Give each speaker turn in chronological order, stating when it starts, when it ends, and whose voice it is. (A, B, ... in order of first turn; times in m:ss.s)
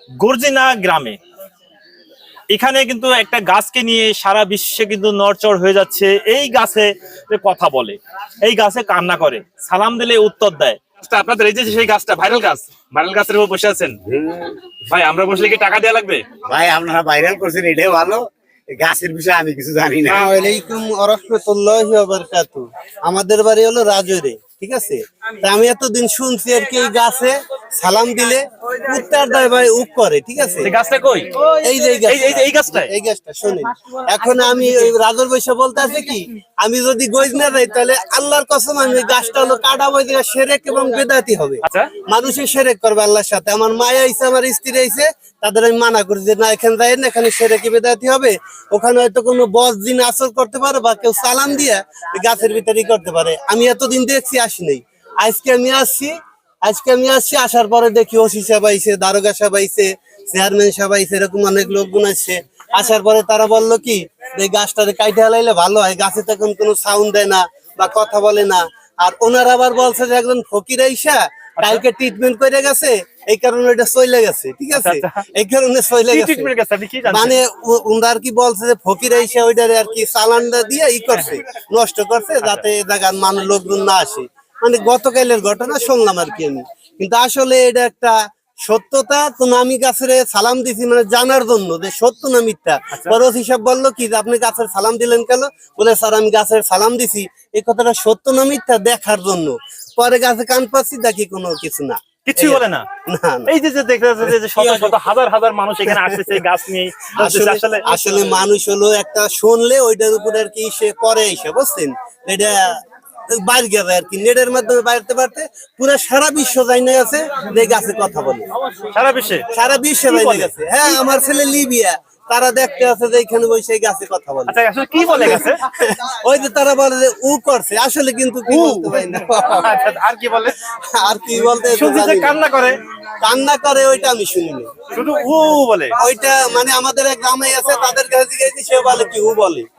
0:00.2-0:01.2 A
0:02.5-0:13.9 A
0:14.0-0:14.6 B
0:14.9-0:16.2 A
0:16.4-0:18.2 B
0:18.7-0:20.3 B
0:20.1-0:30.7 C
0:30.6-0:31.3 A
0:31.4-1:16.5 C
0:32.0-0:32.9 A
0:41.6-0:41.9 A
1:11.6-1:11.8 A
1:14.7-1:15.2 A
1:16.1-1:17.4 A
1:17.0-1:43.5 C
1:42.2-1:42.8 A
1:43.5-1:48.3 A
1:44.2-1:45.0 C
1:45.8-1:46.4 C
1:47.1-1:52.8 C
1:53.3-1:58.5 C
1:58.6-1:59.5 A
1:59.5-2:04.6 C
2:00.1-2:00.5 A
2:04.5-2:05.6 A
2:05.1-2:09.7 C
2:08.5-2:10.6 A
2:10.9-2:12.4 C
2:11.7-2:12.8 A
2:13.2-2:14.8 C
2:14.9-2:16.0 A
2:16.0-2:19.7 C